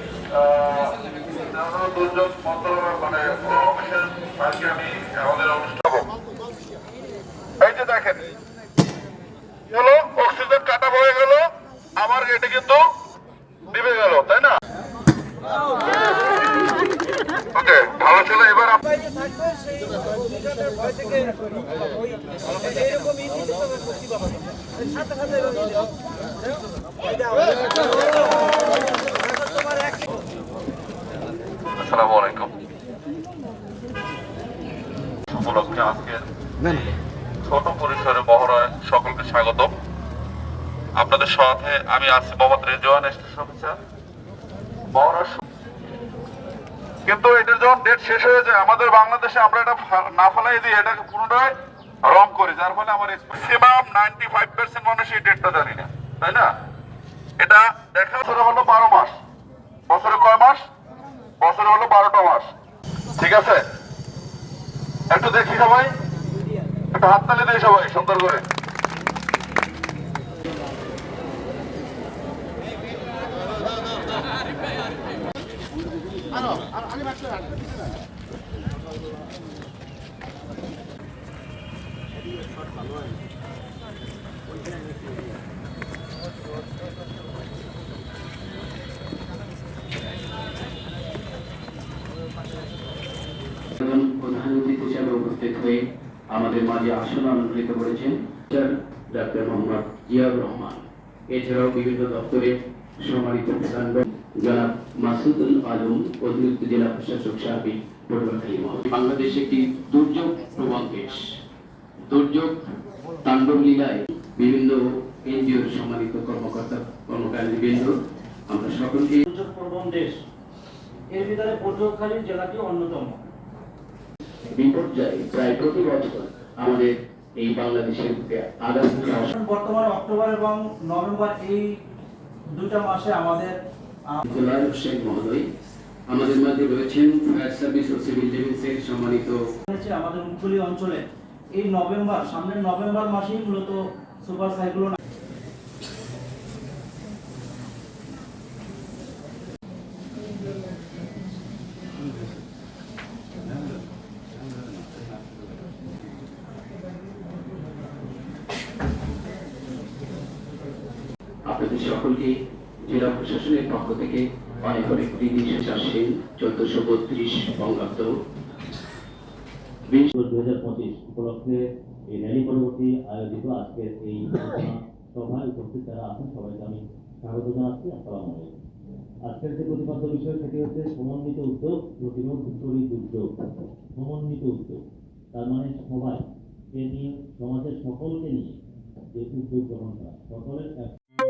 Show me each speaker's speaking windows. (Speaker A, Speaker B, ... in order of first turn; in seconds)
Speaker A: 0.3-6.1, 7.6-8.2, 9.7-11.4, 11.9-12.8, 13.7-14.5, 17.5-18.9, 31.8-32.5, 35.3-36.9, 37.4-39.7, 41.0-43.8, 44.9-45.4, 47.0-51.5, 52.0-56.5, 57.4-59.1, 59.9-60.6, 61.4-62.5, 63.2-63.6, 65.1-65.9, 66.9-68.4
Speaker B: 19.4-21.5, 119.2-120.2, 121.1-123.2, 129.1-131.7, 132.5-133.5, 139.7-141.0, 141.6-145.0
Speaker C: 93.8-95.8, 96.3-111.3, 112.0-112.6, 113.2-117.9, 118.5-119.2, 124.5-129.3, 134.2-135.4, 136.1-139.4, 161.5-162.3, 162.8-168.1
Speaker D: 170.1-178.5, 179.2-183.3, 183.9-184.8, 185.3-188.6, 189.1-190.9